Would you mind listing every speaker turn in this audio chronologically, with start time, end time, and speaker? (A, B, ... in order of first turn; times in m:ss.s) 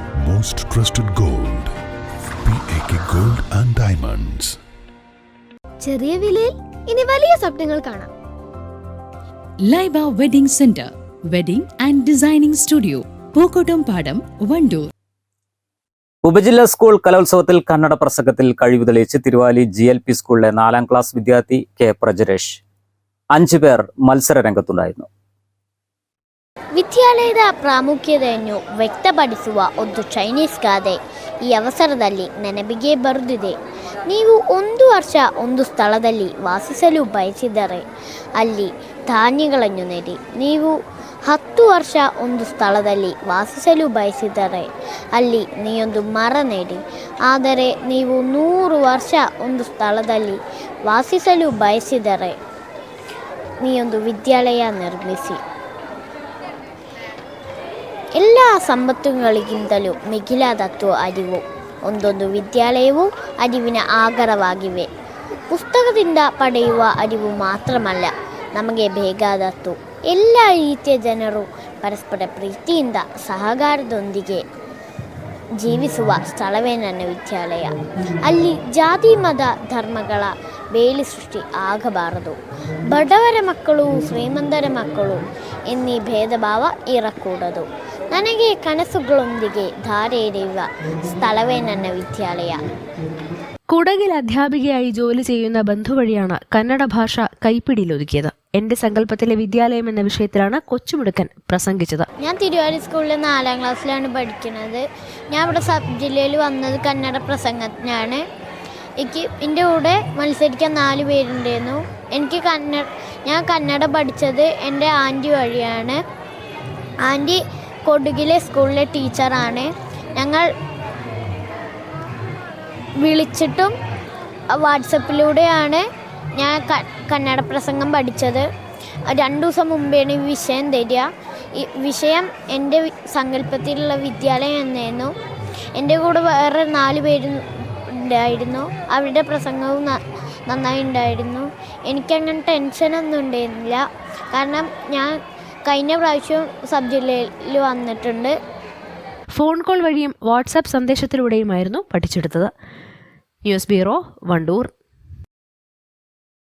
0:00.2-0:01.7 A
0:02.4-0:04.6 A
0:05.8-0:08.1 B
0:09.6-0:14.8 C
0:16.3-0:22.5 D
0:23.4-0:25.0 D
0:26.8-0:33.6 E
0:34.1-0:37.8 E
0:38.4-0:40.8 E
0:41.3-0:52.4 E
0:53.6-0:55.4 E
0:58.2-1:04.9 E
1:05.5-1:14.4 E
1:15.6-1:32.6 E
1:33.7-1:42.1 F
1:42.2-1:48.2 E
1:49.0-1:56.0 E
1:57.0-2:00.5 E
2:03.0-2:03.7 E
2:04.5-2:05.8 E
2:06.3-2:08.4 E
2:09.1-2:15.1 E
2:15.8-2:28.3 E
2:29.4-2:32.5 F
2:33.4-2:34.7 F